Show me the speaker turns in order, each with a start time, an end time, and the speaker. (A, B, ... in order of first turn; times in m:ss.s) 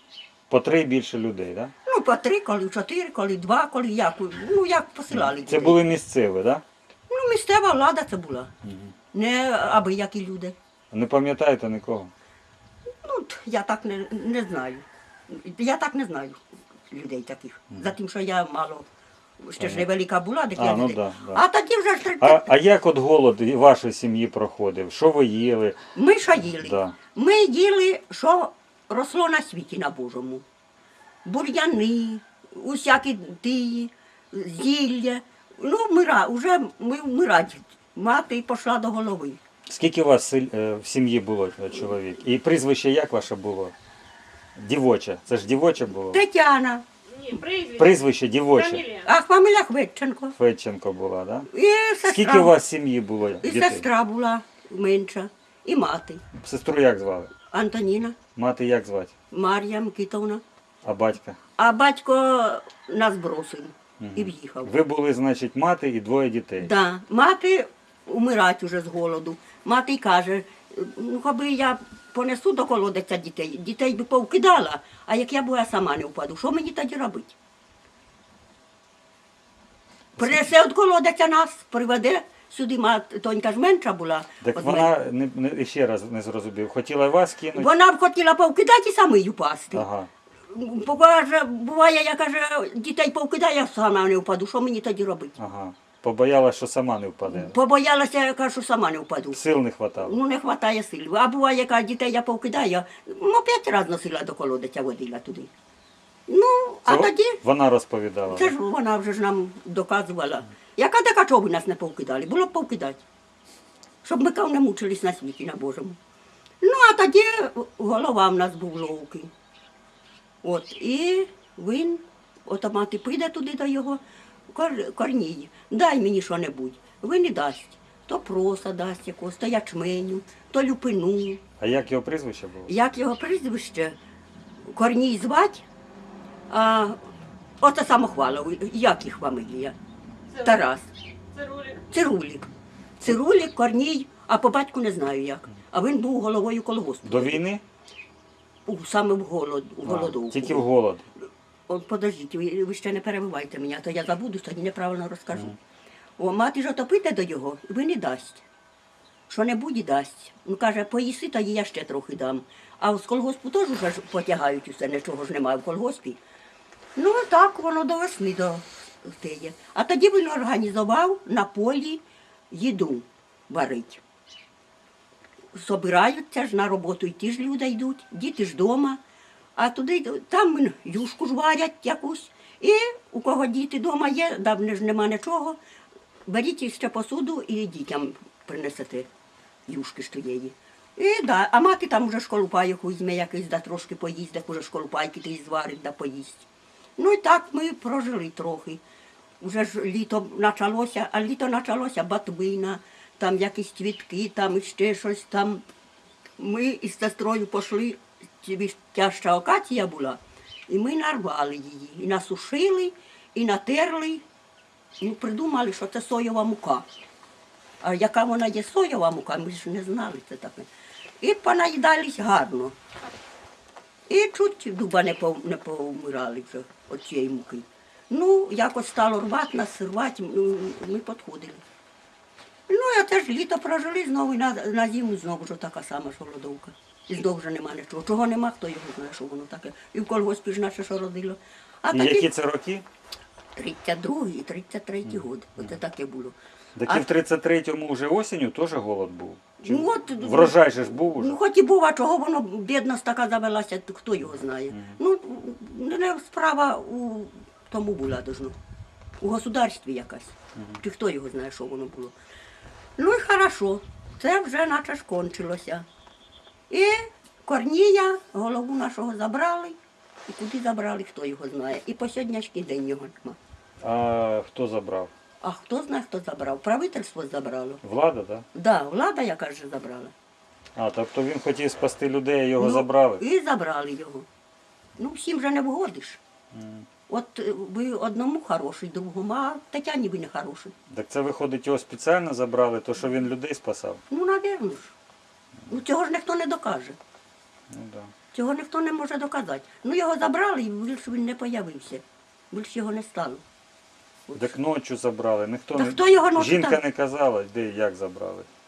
0:00.5-0:01.7 A
0:01.8-0:05.8 B
0:05.1-0:06.6 A
0:07.1-0:08.5 B
0:08.6-0:08.9 A
0:09.1-0:10.6 B
0:10.9-0:12.1 A
0:12.9-0:18.9 B
0:19.4-0:22.5 B
0:19.6-0:19.9 A
0:20.6-0:21.4 A
0:22.2-0:25.8 A
0:26.0-0:30.4 B
0:26.6-0:27.0 A
0:31.2-0:39.4 B
0:39.7-0:43.8 A
0:44.6-0:46.2 A
0:46.0-0:46.8 B
0:47.1-0:49.1 C
0:47.8-0:48.8 A
0:49.0-0:50.3 B
0:50.4-0:51.5 A
0:51.5-0:52.6 B
0:52.0-0:53.9 A
0:53.4-0:56.2 B
0:56.4-0:57.3 A
0:57.5-0:58.2 B
0:58.4-0:59.1 A
0:59.3-1:00.4 B
1:00.8-1:01.4 A
1:01.6-1:04.7 B
1:04.0-1:06.7 A
1:06.6-1:17.3 B
1:20.2-1:20.4 A
1:20.2-1:24.9 B
1:24.4-1:27.7 A
1:27.5-1:29.8 B
1:29.7-1:30.1 A
1:30.5-1:35.4 B
1:35.4-1:37.6 A
1:37.3-1:39.4 B
1:39.3-1:40.2 A
1:40.0-1:45.5 B
1:46.3-1:47.4 B
1:46.9-1:48.6 A
1:48.3-1:53.0 B
1:54.0-1:56.0 B
1:56.6-1:59.3 B
2:00.4-2:11.4 B
2:11.6-2:12.7 A
2:12.7-2:14.0 B
2:14.7-2:15.7 B
2:16.5-2:17.0 B
2:17.6-2:19.8 B
2:20.3-2:20.7 C
2:20.4-2:20.9 B
2:21.3-2:21.8 C
2:21.9-2:22.5 B
2:23.0-2:27.4 B
2:27.0-2:27.6 A
2:28.7-2:30.6 B
2:29.8-2:31.1 A
2:31.7-2:35.6 B
2:36.2-2:38.4 B
2:39.3-2:46.2 B
2:47.0-2:54.0 B
2:55.5-2:59.0 B
2:59.6-3:05.6 B
3:06.3-3:09.1 B
3:09.7-3:16.5 B
3:17.0-3:18.8 B
3:19.4-3:25.6 B
3:26.4-3:34.2 B
3:35.0-3:36.9 B
3:37.8-3:40.7 B
3:41.2-3:42.8 B
3:44.1-3:51.6 B
3:52.7-4:02.3 B
4:01.9-4:02.8 A
4:03.6-4:07.0 B
4:06.8-4:11.4 A
4:09.6-4:18.6 B
4:19.2-4:22.2 B
4:23.0-4:25.8 B
4:26.7-4:29.8 B
4:30.3-4:33.4 B
4:33.8-4:35.1 A
4:35.4-4:37.8 B
4:37.8-4:38.5 A
4:38.5-4:40.1 B
4:40.8-4:43.2 A
4:42.6-4:44.3 B
4:45.0-4:46.2 B
4:46.5-4:46.8 A
4:47.1-4:50.7 B
4:50.9-4:54.0 A
4:54.1-4:54.9 B
4:55.7-4:57.0 B
4:57.7-4:58.1 A
4:58.3-5:03.4 B
5:04.3-5:04.6 B
5:04.4-5:08.5 A
5:05.7-5:06.8 B